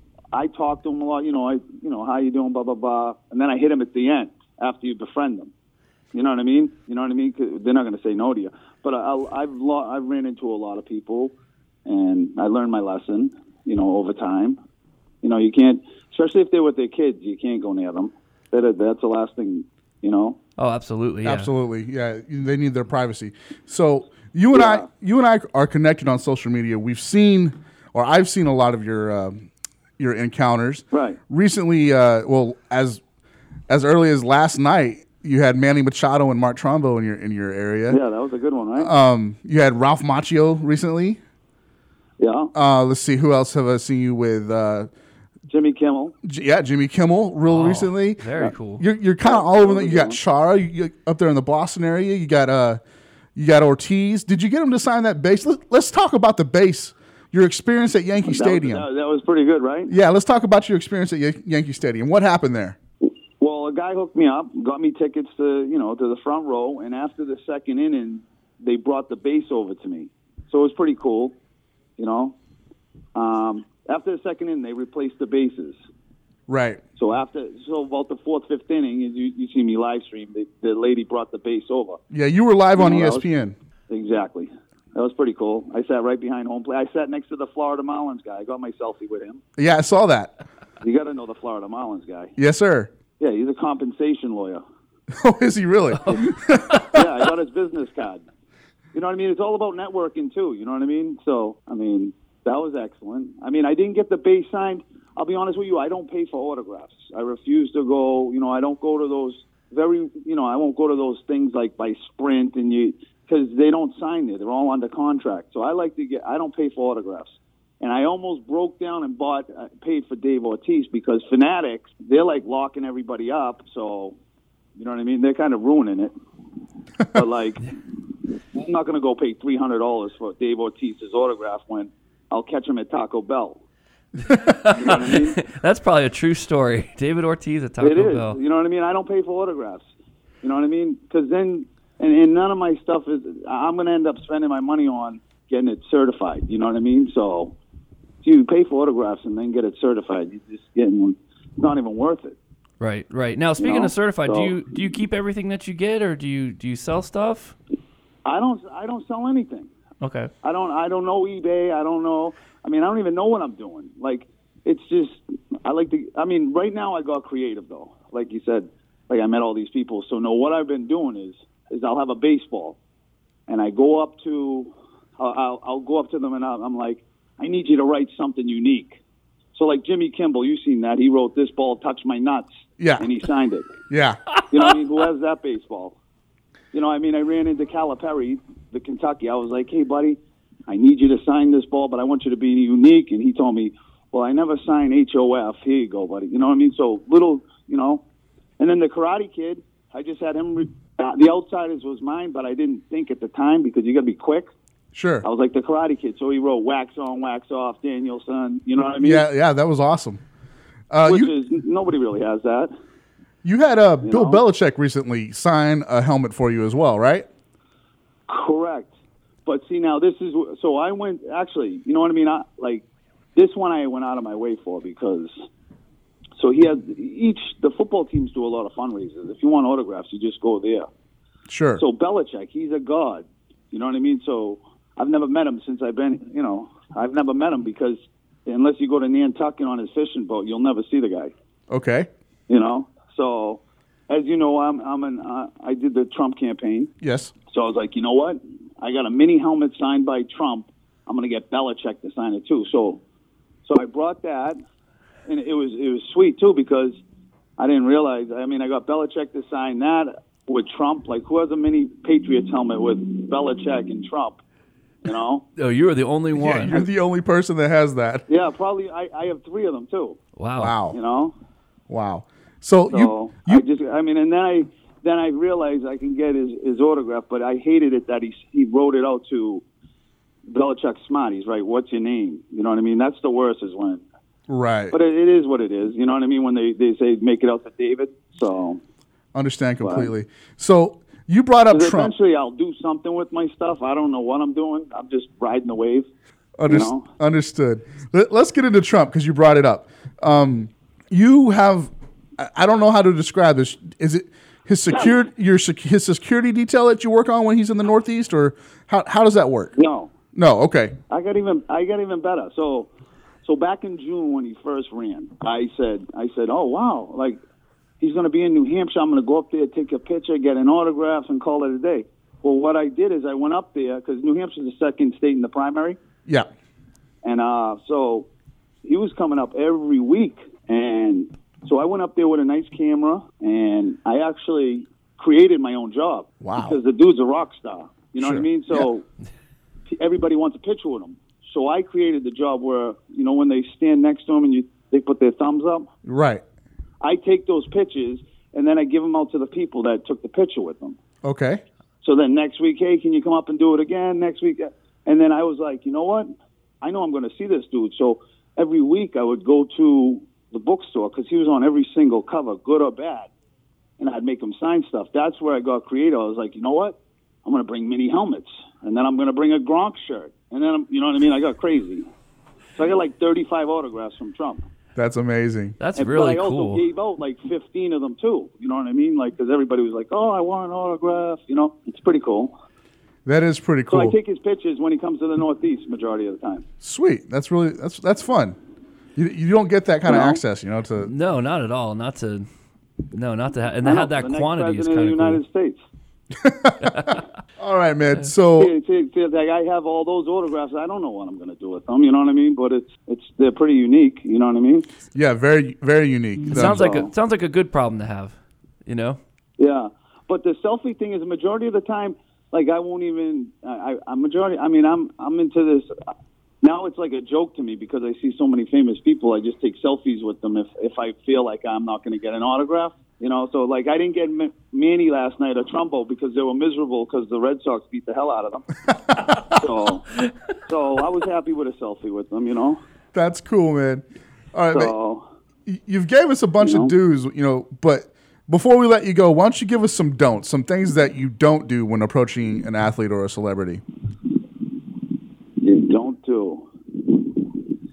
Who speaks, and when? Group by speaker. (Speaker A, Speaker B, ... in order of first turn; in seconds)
Speaker A: 0.3-5.5, 6.1-11.3, 11.8-14.6, 15.2-20.4, 24.5-24.8, 30.9-31.2, 37.9-38.9, 42.2-42.5, 45.5-46.1, 49.2-50.2, 58.2-59.9, 63.4-71.3, 72.0-72.3, 73.1-75.8, 77.0-82.0, 82.8-83.2, 83.9-89.4, 90.8-92.3, 93.2-94.6, 96.8-98.2, 98.9-124.2, 124.8-126.1, 127.1-133.6, 134.7-135.4, 137.8-139.8, 140.4-147.5, 148.2-152.3, 153.6-154.6, 158.2-159.7, 160.4-172.8, 173.5-179.0, 179.5-183.7, 184.5-186.0, 186.7-198.0, 198.6-204.5, 205.2-209.2, 211.0-212.7, 214.0-214.4, 218.3-218.9, 219.4-222.8, 223.3-225.3, 226.4-230.9, 231.8-241.3, 242.5-246.9, 247.5-253.0, 253.7-254.6, 255.2-257.0, 257.6-264.4, 265.0-265.4, 268.3-270.2, 270.9-271.3, 272.9-279.6, 280.5-284.0, 284.9-288.8, 289.8-290.1, 291.7-296.1, 296.7-297.1, 309.8-310.1, 311.1-312.9, 313.4-317.4, 318.0-326.0, 327.2-328.3, 328.8-339.0, 339.9-345.9, 347.0-351.0, 352.0-363.3, 364.0-372.1, 372.8-374.6, 375.9-382.5, 383.9-386.6, 390.1-390.4, 393.8-395.8, 398.6-404.9, 406.5-407.1, 409.6-415.9, 416.6-428.7, 429.4-430.0, 430.7-432.8, 434.7-435.2, 436.6-436.9, 445.6-447.6
Speaker B: 20.6-21.5, 47.5-48.8, 96.0-96.9, 134.2-138.4, 152.8-157.6, 160.0-160.3, 265.6-266.9, 270.4-270.8, 375.8-376.8, 391.0-392.5, 393.1-395.4, 396.9-397.2, 406.4-409.2
Speaker C: 21.2-29.5, 30.0-33.0, 33.7-38.0, 38.8-41.2, 42.5-44.9, 46.2-52.8, 53.4-58.9, 59.9-62.8, 76.5-76.8, 82.1-83.5, 89.6-90.3, 92.4-92.9, 95.1-97.0, 182.8-183.1, 183.9-184.2, 204.9-205.2, 209.0-210.2, 210.9-211.3, 213.4-217.3, 231.5-231.8, 241.7-242.1, 247.0-247.3, 266.3-268.3, 270.6-271.0, 271.9-273.6, 284.5-284.9, 289.3-292.1, 296.6-309.7, 310.3-311.0, 336.4-336.8, 338.2-338.9, 346.0-346.4, 351.2-351.6, 374.9-375.8, 383.2-384.2, 386.8-388.6, 389.1-391.1, 396.3-398.7, 405.1-406.9, 433.1-434.9, 435.6-443.8